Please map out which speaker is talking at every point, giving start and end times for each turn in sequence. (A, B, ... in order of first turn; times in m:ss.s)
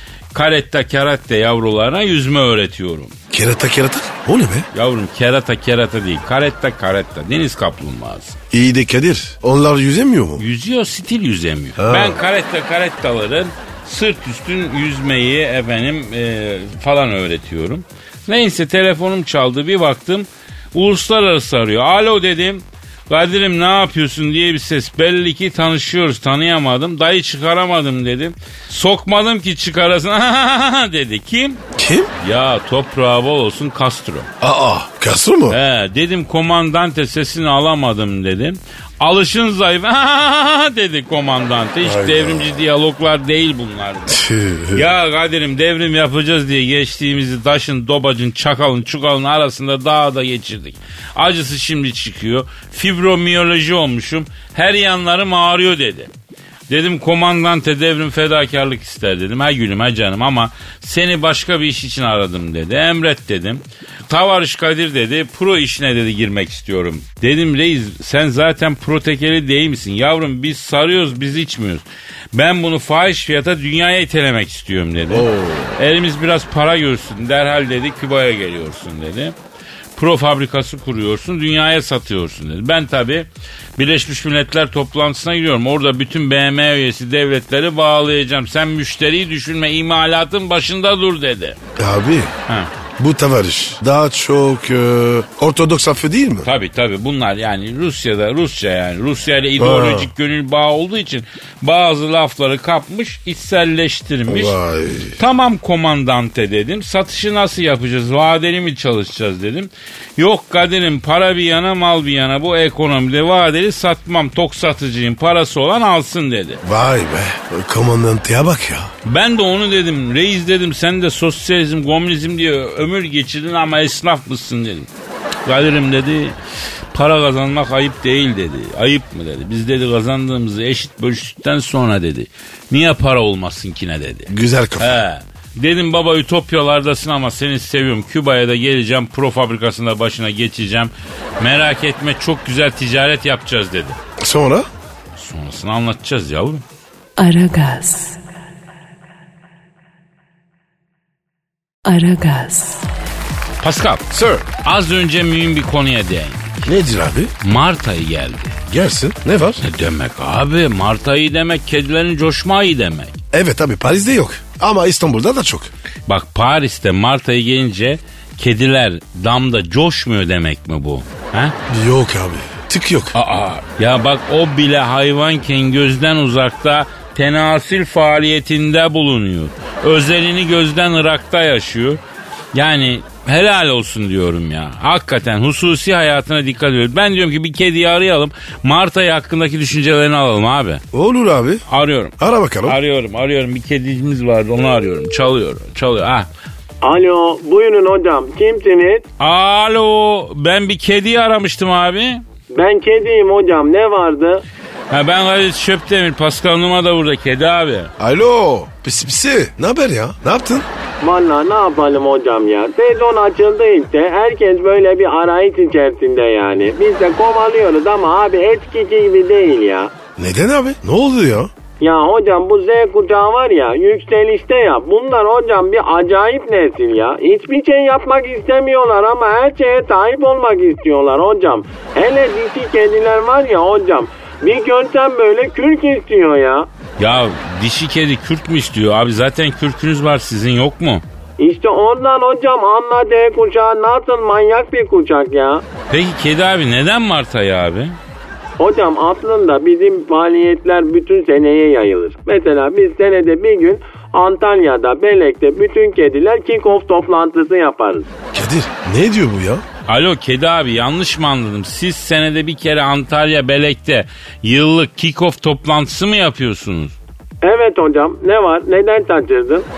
0:00.3-0:03.2 A
0:03.3-0:04.7 B
0:04.7-0:08.4 A
0:08.5-0:10.4 B
0:10.4-0:31.6 A
0:11.8-0:12.2 B
0:31.8-0:32.1 B
0:32.2-0:34.3 A
0:34.4-0:35.6 B
0:35.5-0:44.2 A
0:41.8-0:42.6 B
0:44.1-0:44.9 B
0:44.7-0:56.1 A
0:56.7-1:19.4 A
1:15.1-1:15.8 B
1:20.0-1:31.6 A
1:31.8-1:32.3 B
1:33.0-1:36.5 B
1:36.4-1:44.6 A
1:39.6-1:40.1 B
1:44.3-1:45.2 B
1:45.2-1:56.6 A
1:56.6-1:58.9 B
1:59.0-2:04.9 A
2:05.4-2:06.4 A
2:06.9-2:24.0 A
2:14.3-2:15.0 B
2:24.2-2:24.7 B
2:25.2-2:26.6 A
2:27.2-2:28.2 C
2:31.8-2:32.9 C
2:33.6-2:36.5 A
2:36.6-2:37.3 B
2:37.4-2:38.6 A
2:38.7-2:39.6 B
2:39.6-2:43.2 A
2:43.3-2:45.7 B
2:46.1-2:51.6 A
2:51.7-2:53.1 B
2:53.1-3:02.0 A
3:02.5-3:10.8 A
3:10.9-3:11.6 B
3:11.7-3:16.3 A
3:12.2-3:12.8 B
3:16.8-3:19.1 D
3:19.2-3:22.2 A
3:22.5-3:24.4 D
3:24.9-3:27.9 A
3:28.0-3:30.7 B
3:31.0-3:39.9 D
3:40.2-3:41.5 B
3:41.8-3:56.7 D
3:57.0-4:01.0 A
4:01.4-4:05.6 D
4:05.9-4:08.0 A
4:08.6-4:18.1 D
4:18.3-4:19.6 B
4:19.9-4:27.0 A
4:27.4-4:29.7 D